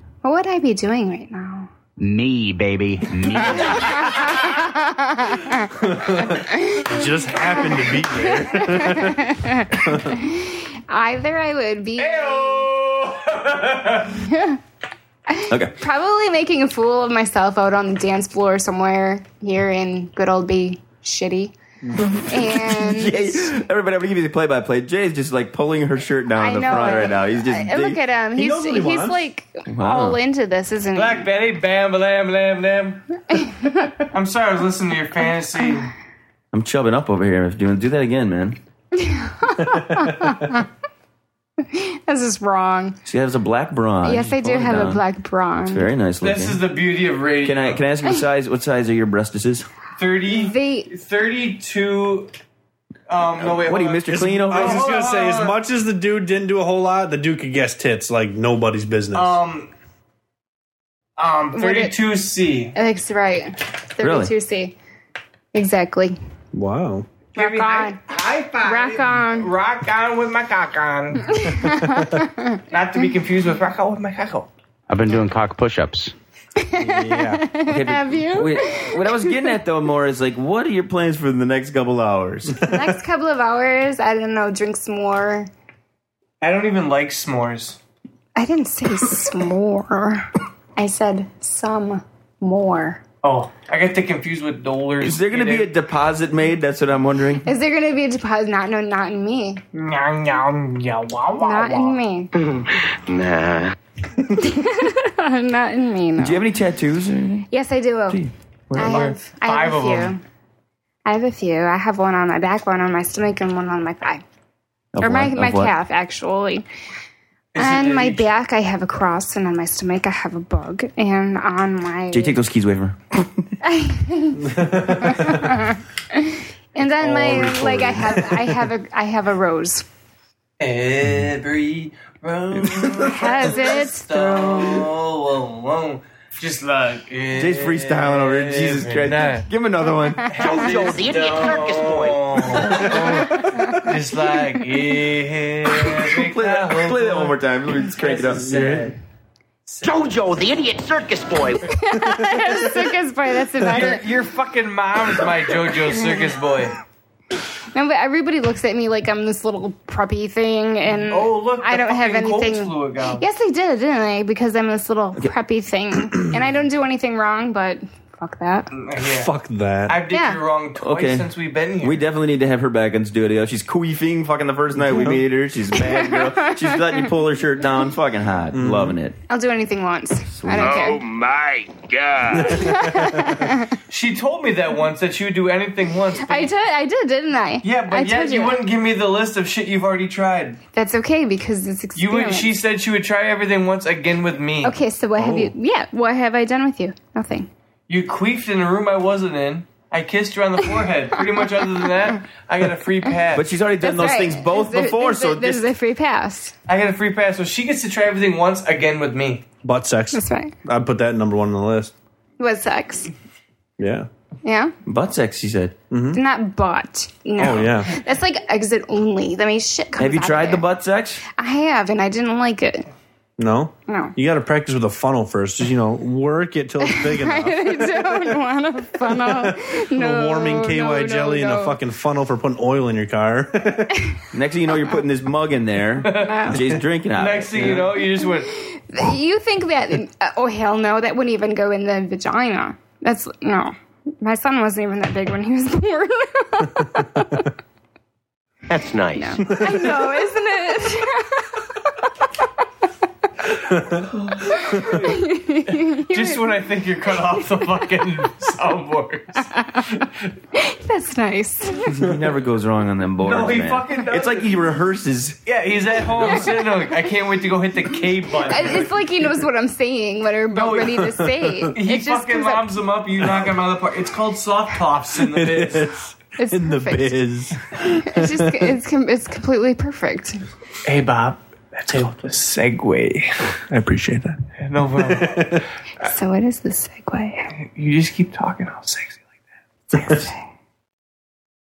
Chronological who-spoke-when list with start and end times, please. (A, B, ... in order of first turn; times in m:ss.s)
0:00.2-0:01.7 A
0:02.0-0:04.2 B
0:03.6-0:12.7 A
0:05.8-0:10.2 C
0:12.0-0:14.2 D
0:14.2-0:14.6 A
0:15.3-0:21.5 A
0:15.5-0:15.7 E
0:21.8-0:22.2 C
0:22.2-0:28.0 E
0:22.2-0:23.4 A
0:26.4-0:31.3 A
0:28.4-0:29.2 C
0:29.7-0:30.2 E
0:31.0-0:33.0 D
0:33.3-0:34.0 A
0:34.1-0:35.9 D
0:36.5-0:38.6 E
0:39.0-0:40.7 A
0:39.6-0:40.4 C
0:41.6-0:43.0 A
0:43.1-0:45.0 E
0:44.0-0:45.9 A
0:45.7-0:46.6 E
0:46.2-0:47.8 D
0:47.4-0:49.7 E
0:50.0-0:52.3 D
0:50.3-0:50.9 A
0:53.1-0:55.6 D
0:53.2-0:55.0 E
0:54.1-0:59.4 C
0:59.1-0:59.7 D
1:01.2-1:02.7 D
1:01.5-1:02.0 A
1:02.8-1:04.8 A
1:04.0-1:04.3 E
1:05.5-1:06.2 A
1:06.5-1:07.1 C
1:07.3-1:11.4 D
1:07.4-1:08.0 A
1:08.6-1:09.5 A
1:11.3-1:12.6 A
1:11.6-1:12.2 C
1:12.7-1:14.5 D
1:14.9-1:16.1 B
1:16.6-1:19.3 A
1:16.8-1:17.5 C
1:17.6-1:22.7 E
1:22.6-1:25.5 A
1:26.4-1:27.8 D
1:28.4-1:33.0 A
1:33.2-1:35.7 D
1:35.0-1:37.5 E
1:37.4-1:39.6 A
1:39.7-1:42.0 D
1:41.4-1:42.3 A
1:42.4-1:43.8 F
1:44.3-1:46.4 A
1:46.2-1:47.5 E
1:47.5-1:48.2 A
1:48.1-1:49.1 E
1:48.8-1:50.2 D
1:48.8-1:50.2 A
1:51.0-1:54.2 A
1:54.9-1:55.7 E
1:55.0-1:56.7 A
1:57.5-1:58.3 D
1:57.6-2:02.4 A
2:02.1-2:03.5 E
2:03.6-2:09.8 A
2:04.4-2:05.6 C
2:06.8-2:08.5 C
2:10.6-2:19.5 D
2:13.0-2:14.9 A
2:17.3-2:20.8 E
2:20.3-2:29.0 D
2:20.3-2:22.7 F
2:23.0-2:23.8 C
2:23.3-2:23.7 A
2:25.7-2:28.8 E
2:28.4-2:28.9 C
2:29.7-2:30.0 D
2:29.8-2:31.7 F
2:31.7-2:34.0 A
2:32.2-2:32.6 C
2:33.6-2:36.8 D
2:37.7-2:48.7 A
2:41.1-2:43.2 D
2:48.7-2:49.3 D
2:49.0-2:50.0 C
2:49.9-2:52.0 D
2:50.1-2:50.4 A
2:50.8-2:59.2 E
2:54.8-2:55.3 C
2:55.8-2:56.6 A
2:58.5-2:59.0 C
2:59.3-3:01.0 A
3:00.4-3:00.9 E
3:00.6-3:02.6 G
3:02.3-3:03.5 C
3:02.4-3:03.8 A
3:03.9-3:06.5 D
3:06.2-3:08.6 A
3:07.6-3:10.6 D
3:10.7-3:12.5 A
3:12.0-3:14.8 D
3:14.6-3:17.5 A
3:15.2-3:15.5 C
3:17.9-3:23.5 D
3:23.3-3:25.7 E
3:23.8-3:26.5 A
3:26.7-3:29.4 D
3:29.6-3:31.9 C
3:30.1-3:30.5 A
3:32.4-3:33.1 A
3:33.8-3:34.1 C
3:34.4-3:34.7 A
3:34.9-3:35.8 E
3:35.9-3:36.2 C
3:36.1-3:40.7 A
3:37.4-3:38.0 C
3:40.0-3:41.2 E
3:41.4-3:42.9 A
3:43.4-3:48.3 C
3:43.9-3:44.2 A
3:46.8-3:51.8 A
3:49.0-3:54.0 C
3:54.3-3:57.9 E
3:56.0-3:56.5 D
3:56.2-3:56.6 A
3:56.5-3:56.8 C
3:57.1-3:58.5 D
3:58.6-4:07.5 A
4:08.7-4:09.4 F
4:09.2-4:11.6 A
4:09.5-4:09.9 C
4:13.7-4:14.1 C
4:14.4-4:16.6 A
4:15.7-4:19.5 D
4:19.5-4:21.9 A
4:21.8-4:25.4 E
4:23.2-4:24.6 D
4:25.5-4:29.0 D
4:26.4-4:27.0 A
4:28.5-4:32.7 A
4:30.5-4:31.2 D
4:31.3-4:31.7 C
4:31.8-4:35.9 D
4:35.2-4:38.7 C
4:36.4-4:37.2 A
4:37.9-4:40.4 A
4:40.8-4:43.6 D
4:43.7-4:44.4 C
4:44.6-4:45.6 D
4:45.0-4:45.6 C
4:46.0-4:47.5 A
4:47.6-4:49.2 D
4:49.9-4:50.3 C
4:49.9-4:50.3 A